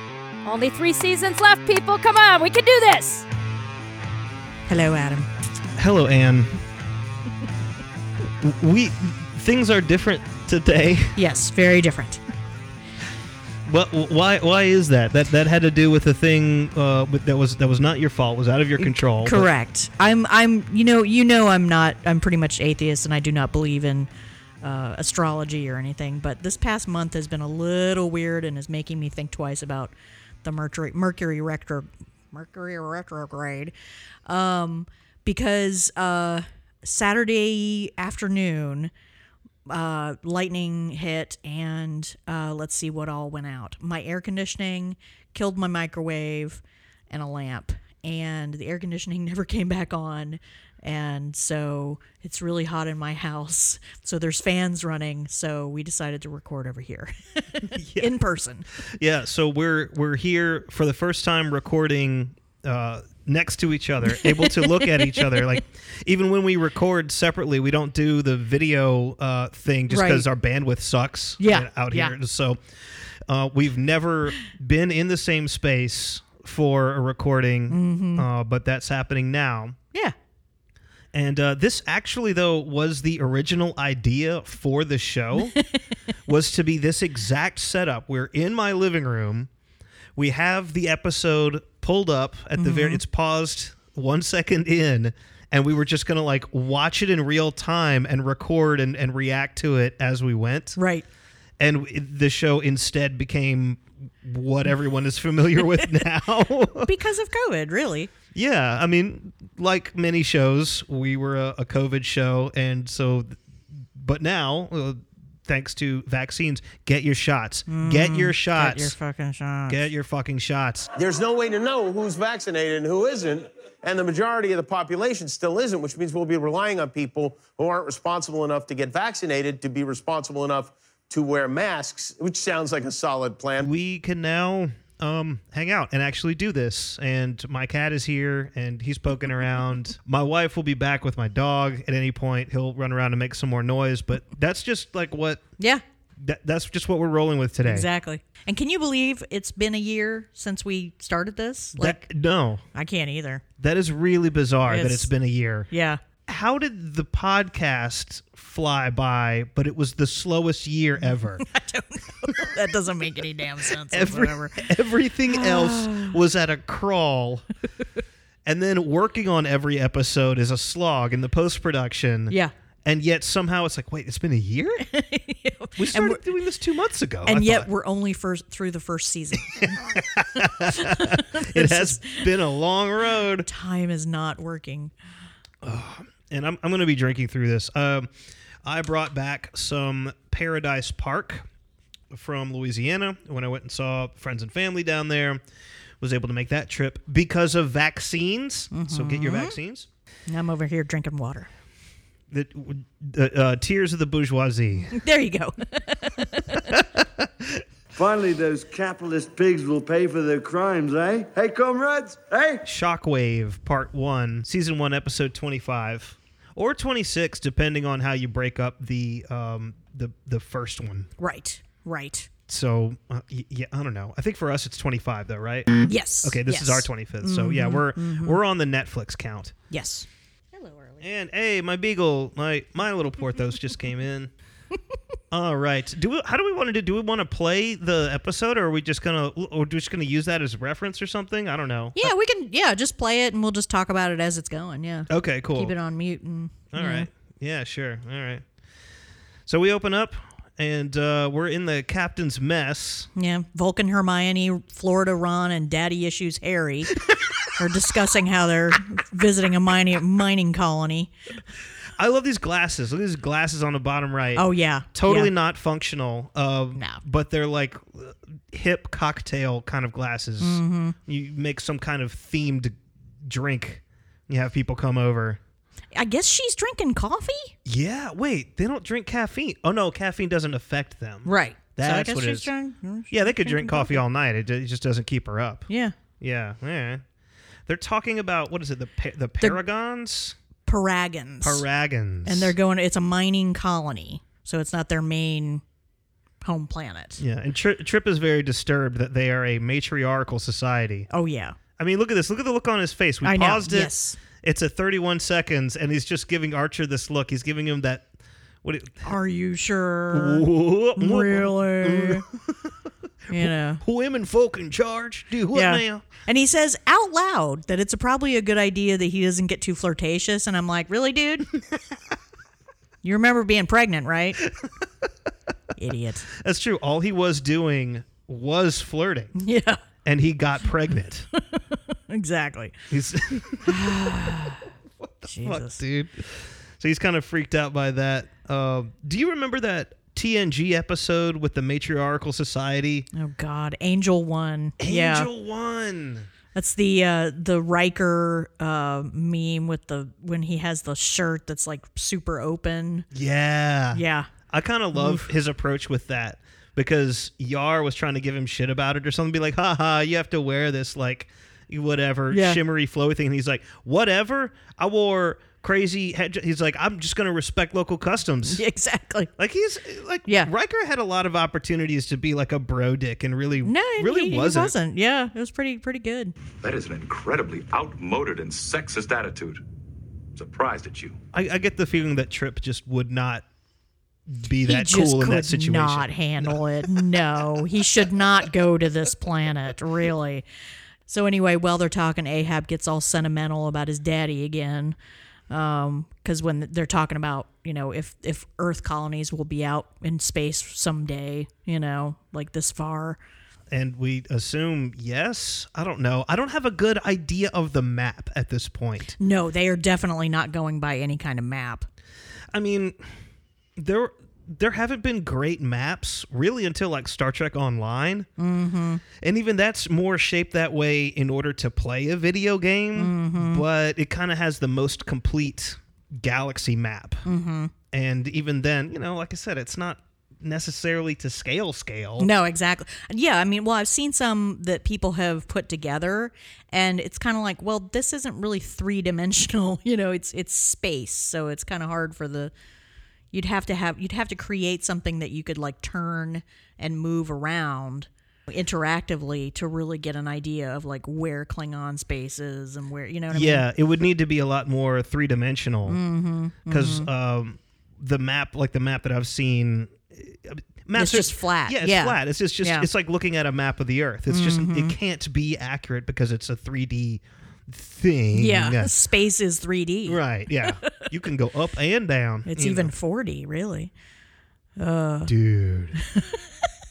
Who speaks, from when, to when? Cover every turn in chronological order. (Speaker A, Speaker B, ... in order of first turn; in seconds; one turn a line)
Speaker A: 0.5-3.2
Speaker B: 4.7-5.3
Speaker C: 5.8-6.5
Speaker C: 8.4-11.2
Speaker B: 11.2-12.2
Speaker C: 13.7-19.5
Speaker B: 18.8-24.1
Speaker B: 24.6-29.9
Speaker B: 30.4-33.7
Speaker B: 34.3-38.9
Speaker B: 39.7-58.7
Speaker C: 57.7-58.1
Speaker C: 59.0-72.6
Speaker B: 64.1-65.5
Speaker B: 69.9-70.3
Speaker B: 71.4-72.2
Speaker C: 73.3-79.8
Speaker B: 77.7-78.2
Speaker C: 81.1-85.6
Speaker B: 85.4-85.8
Speaker C: 86.3-89.5
Speaker C: 90.2-100.8
Speaker B: 92.6-93.0
Speaker B: 100.8-101.0
Speaker C: 101.6-106.9
Speaker B: 106.8-108.1
Speaker C: 108.3-113.4
Speaker C: 114.0-119.0
Speaker B: 117.7-119.8
Speaker C: 119.7-120.9
Speaker D: 121.0-133.7
Speaker C: 133.6-145.4
Speaker C: 146.2-147.9
Speaker B: 147.7-152.0
Speaker C: 151.8-152.6
Speaker B: 152.7-153.4
Speaker C: 153.6-155.7
Speaker B: 154.7-155.1
Speaker B: 155.7-156.0
Speaker C: 156.2-161.4
Speaker B: 161.4-164.6
Speaker C: 163.9-167.4
Speaker B: 165.3-166.2
Speaker C: 168.4-174.8
Speaker B: 174.8-176.2
Speaker C: 175.8-177.7
Speaker B: 177.2-179.9
Speaker C: 179.6-183.5
Speaker B: 180.4-182.2
Speaker B: 183.4-184.9
Speaker C: 185.6-188.1
Speaker C: 188.6-191.5
Speaker C: 192.1-195.4
Speaker C: 196.0-199.9
Speaker B: 198.7-199.6
Speaker B: 200.3-201.5
Speaker C: 202.3-205.0
Speaker B: 204.9-206.6
Speaker C: 206.8-207.6
Speaker E: 207.9-212.6
Speaker C: 212.6-221.1
Speaker B: 221.2-222.3
Speaker C: 222.5-225.7
Speaker B: 225.8-228.4
Speaker C: 226.2-229.6
Speaker B: 229.7-230.1
Speaker C: 231.0-234.3
Speaker C: 235.3-242.1
Speaker B: 241.9-247.1
Speaker C: 245.1-245.8
Speaker C: 246.7-248.4
Speaker C: 249.5-253.1
Speaker B: 253.2-256.9
Speaker B: 257.6-261.1
Speaker C: 262.0-275.4
Speaker B: 264.4-265.3
Speaker B: 266.8-267.0
Speaker B: 270.4-271.0
Speaker B: 275.9-277.5
Speaker C: 277.6-282.5
Speaker B: 281.2-284.0
Speaker C: 283.1-285.7
Speaker B: 285.7-285.9
Speaker C: 286.2-287.0
Speaker C: 287.7-290.4
Speaker B: 290.7-291.6
Speaker C: 291.4-292.5
Speaker B: 292.2-295.6
Speaker B: 296.4-297.2
Speaker C: 297.2-301.1
Speaker B: 301.1-301.6
Speaker C: 301.8-308.1
Speaker B: 303.2-304.2
Speaker C: 308.6-309.1
Speaker B: 309.0-310.5
Speaker C: 310.1-312.7
Speaker B: 311.0-312.2
Speaker C: 313.3-316.1
Speaker B: 313.3-313.8
Speaker B: 315.5-321.5
Speaker B: 323.0-324.4
Speaker B: 325.8-326.3
Speaker C: 326.4-329.3
Speaker B: 329.4-329.8
Speaker C: 330.1-331.3
Speaker B: 332.1-332.8
Speaker C: 332.9-334.4
Speaker B: 333.6-334.6
Speaker C: 335.0-343.1
Speaker B: 335.3-335.8
Speaker B: 343.1-345.3
Speaker C: 344.8-346.3
Speaker B: 346.6-353.1
Speaker C: 353.1-368.6
Speaker B: 353.9-354.3
Speaker B: 354.9-355.3
Speaker B: 362.3-362.6
Speaker B: 368.5-369.3
Speaker C: 369.4-374.7
Speaker B: 373.6-376.4
Speaker F: 376.6-379.6
Speaker F: 380.4-381.2
Speaker C: 381.3-383.4
Speaker C: 384.3-387.4
Speaker B: 384.6-390.4
Speaker B: 391.1-395.0
Speaker B: 395.5-403.2
Speaker C: 403.7-409.1
Speaker B: 409.2-411.9
Speaker C: 412.5-413.0
Speaker C: 413.8-418.3
Speaker B: 418.4-419.0
Speaker C: 419.2-427.2
Speaker B: 422.9-423.6
Speaker B: 427.2-427.7
Speaker C: 427.9-432.3
Speaker B: 432.2-442.5
Speaker B: 443.3-453.7
Speaker C: 453.3-456.0
Speaker B: 455.9-457.1
Speaker C: 456.7-468.9
Speaker B: 461.0-462.9
Speaker B: 464.3-465.0
Speaker B: 468.3-471.0
Speaker C: 470.1-472.9
Speaker B: 472.5-473.9
Speaker B: 474.8-475.3
Speaker C: 475.3-476.0
Speaker B: 476.0-476.4